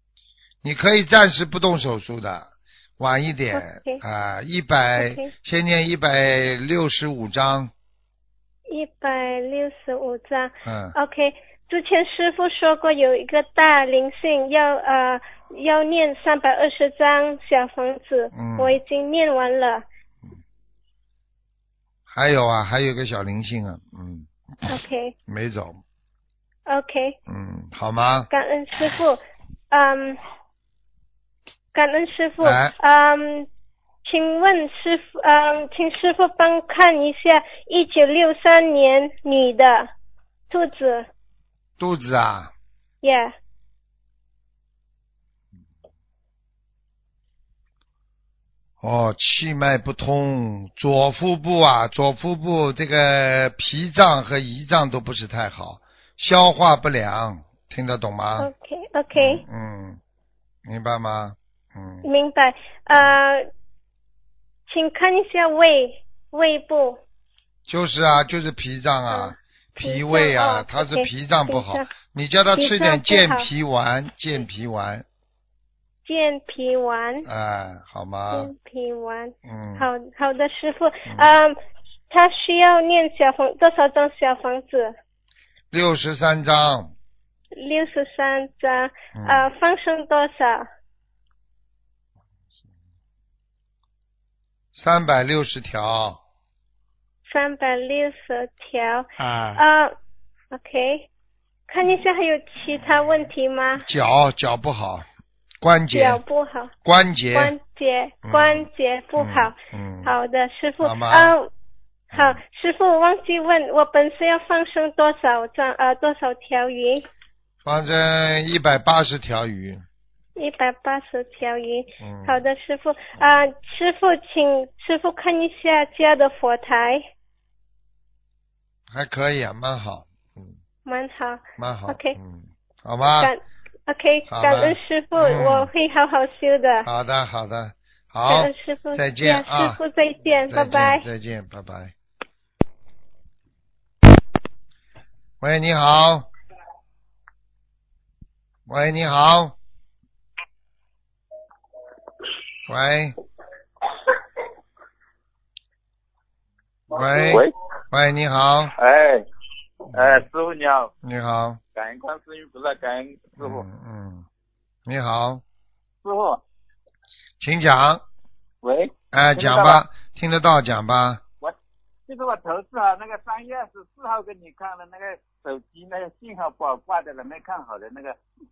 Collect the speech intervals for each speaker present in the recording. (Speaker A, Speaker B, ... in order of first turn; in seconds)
Speaker A: 0.6-7.7, 10.6-10.9, 18.3-18.8, 22.1-24.3, 25.3-25.8, 27.3-28.3, 32.4-32.7, 41.8-42.5, 48.8-58.5, 59.1-60.0, 60.6-62.0, 67.7-75.0, 77.2-78.5, 79.4-79.9, 81.1-81.3, 85.7-86.9, 89.1-89.5, 94.7-96.2, 99.2-99.6, 103.8-105.0, 105.6-106.2, 106.8-107.5, 108.2-110.1, 110.8-111.3, 112.1-112.4, 117.6-119.8, 122.0-122.4, 128.9-130.6, 131.6-133.3, 134.3-135.7, 136.8-139.8, 140.5-141.9, 145.4-146.3, 148.7-149.5, 152.7-153.2, 156.9-158.7, 161.0-161.6, 163.4-164.2, 164.8-165.4, 167.4-168.0, 169.1-171.2
Speaker B: 3.5-4.0, 5.0-5.3, 8.7-19.8, 24.7-25.1, 26.7-27.2, 28.3-30.2, 31.7-33.5, 34.0-39.9, 40.5-41.1, 43.0-43.3, 58.4-59.4, 62.0-63.5, 64.7-67.0, 69.1-71.9, 72.5-73.5, 76.0-77.3, 78.3-81.6, 82.1-85.0, 87.5-90.7, 97.2-99.9, 100.5-101.1, 101.7-103.8, 105.9-106.7, 107.3-111.5, 112.1-117.1, 120.4-127.1, 130.8-132.2, 133.2-136.9, 138.3-141.1
Speaker C: 157.0-157.5, 158.8-159.2, 159.9-160.9, 161.7-163.6, 166.0-166.4, 168.6-169.8, 172.1-178.2